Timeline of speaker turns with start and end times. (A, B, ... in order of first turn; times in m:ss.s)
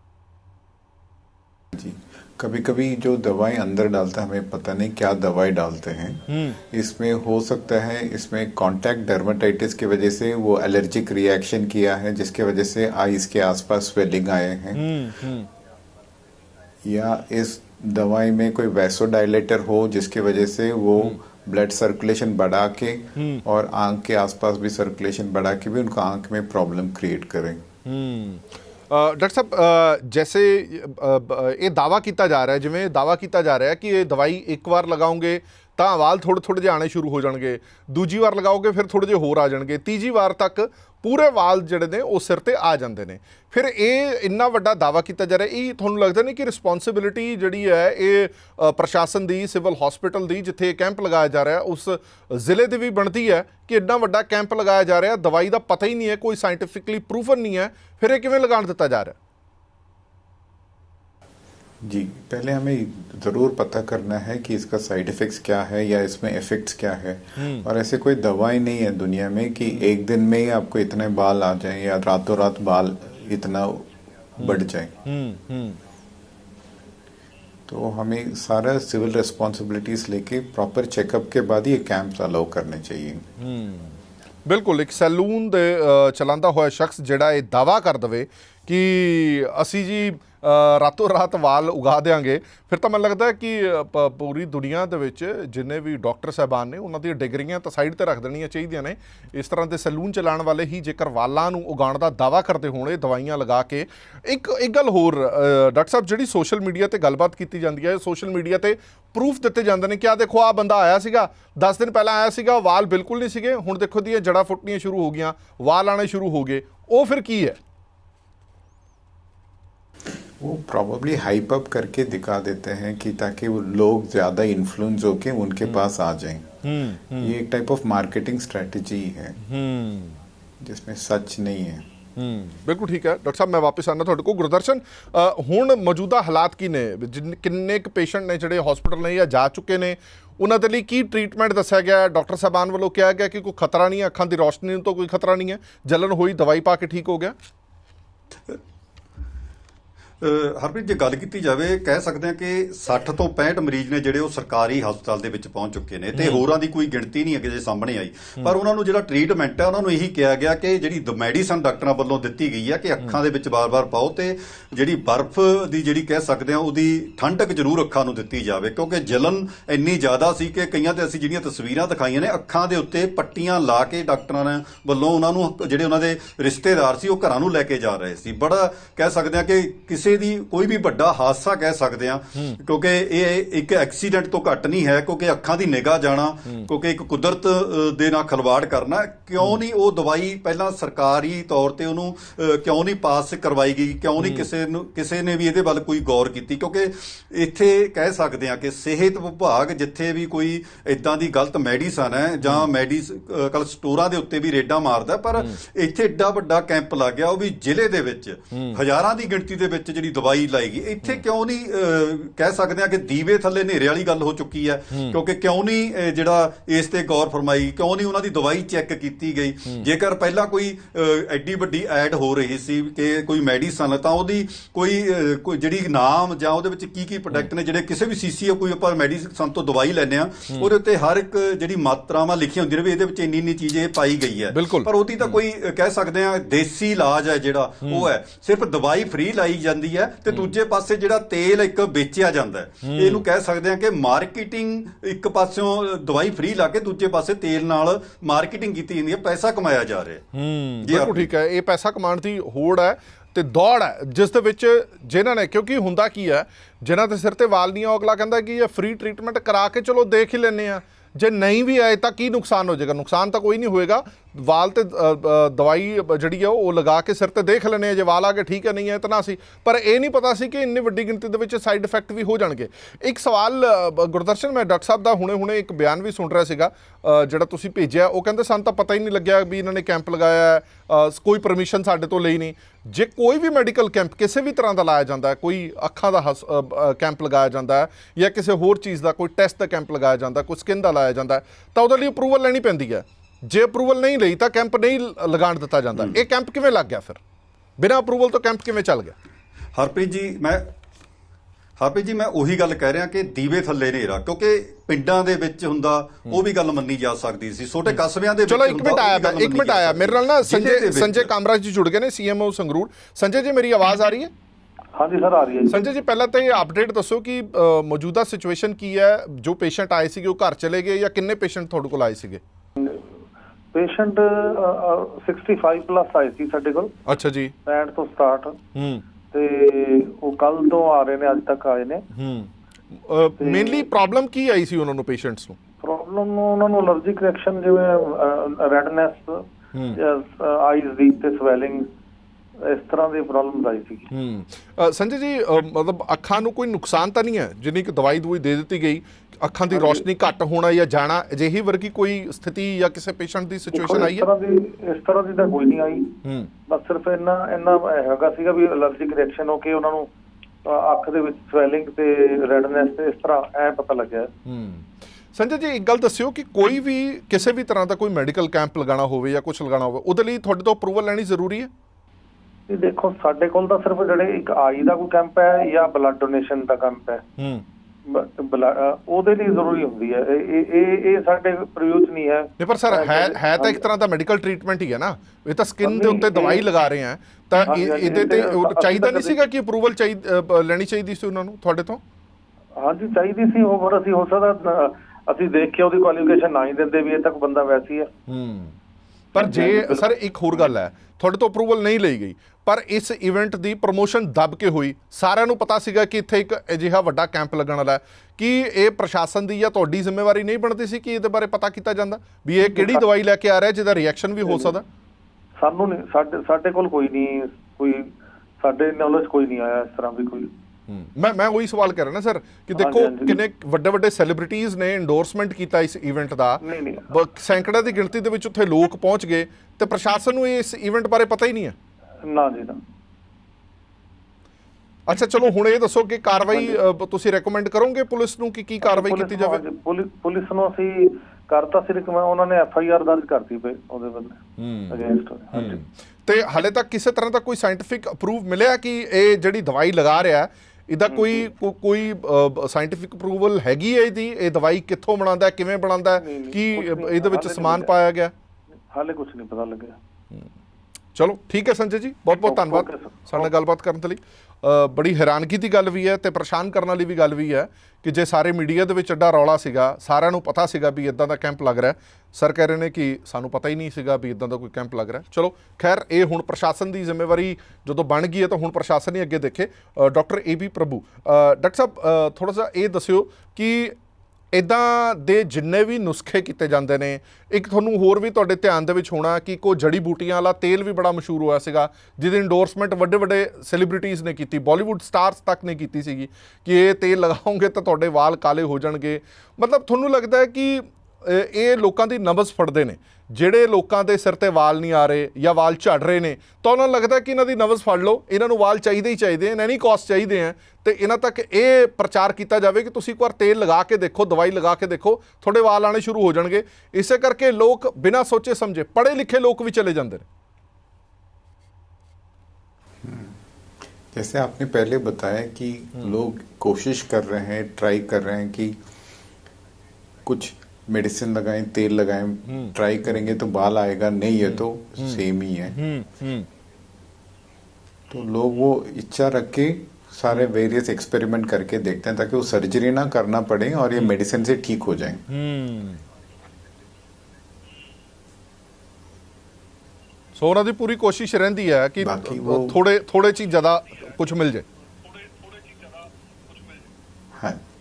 0:01.7-0:15.1 A
0:06.3-0:06.6 B
0:14.8-0:15.5 B
0:16.8-0:27.7 A
0:23.2-0:23.4 B
0:27.8-0:59.2 B
1:01.8-1:15.0 A
1:07.4-1:07.6 B
1:14.4-1:15.8 B
1:17.7-1:23.2 A
1:23.4-1:23.9 B
1:24.4-1:57.6 B
2:00.4-2:09.4 A
2:06.6-2:07.3 B
2:09.4-2:10.2 B
2:10.6-2:11.9 A
2:12.2-2:27.3 B
2:30.2-4:10.2 C
2:36.2-2:36.4 B
3:14.2-3:14.5 B
3:22.4-3:22.7 B
3:28.5-3:28.8 B
3:54.5-3:55.3 B
3:57.8-3:58.1 B
4:02.8-4:03.2 B
4:10.3-4:57.2 B
4:10.8-4:11.3 C
4:57.8-4:59.1 B
4:59.7-5:00.6 C
5:01.8-5:11.3 C
5:08.5-5:14.3 B
5:15.0-5:15.8 D
5:15.7-5:22.4 B
5:22.8-5:23.0 D
5:23.7-5:27.0 D
5:27.1-5:27.5 B
5:27.6-5:28.6 D
5:28.7-5:29.0 B
5:29.3-5:32.0 D
5:32.1-5:35.6 B
5:33.4-5:33.9 D
5:35.8-5:41.9 D
5:39.7-5:40.0 B
5:42.6-5:44.1 D
5:44.1-5:54.3 B
5:49.7-5:50.0 D
5:53.7-5:56.1 D
5:56.2-5:56.5 B
5:56.7-6:00.1 D
6:00.6-6:04.3 D
6:04.4-6:11.7 B
6:12.7-6:17.2 D
6:17.4-6:17.6 B
6:18.0-6:23.8 D
6:22.6-6:32.0 B
6:25.8-6:26.6 D
6:27.6-6:29.4 D
6:32.8-6:38.1 D
6:38.3-6:38.7 B
6:39.3-6:54.8 B
6:39.4-6:40.1 D
6:52.6-6:53.0 D
6:54.4-6:54.7 D
6:55.6-7:00.5 D
7:00.9-7:11.8 B
7:02.8-7:03.4 D
7:06.6-7:07.1 D
7:12.2-7:12.8 D
7:15.1-7:19.6 B
7:18.8-7:25.8 D
7:24.6-7:25.0 B
7:25.5-7:38.3 B
7:31.1-7:31.5 D
7:36.2-7:37.9 D
7:38.9-7:40.0 D
7:41.1-8:04.0 B
7:42.4-7:43.5 D
8:04.5-8:40.2 B
8:43.0-8:43.4 A
8:44.1-8:48.8 A
8:50.2-8:55.8 A
8:52.5-8:52.7 B
8:54.6-8:55.2 B
8:55.7-8:56.5 B
8:58.1-9:05.2 A
9:05.3-9:06.0 B
9:10.4-9:14.6 B
9:12.0-9:12.8 A
9:17.4-9:17.6 A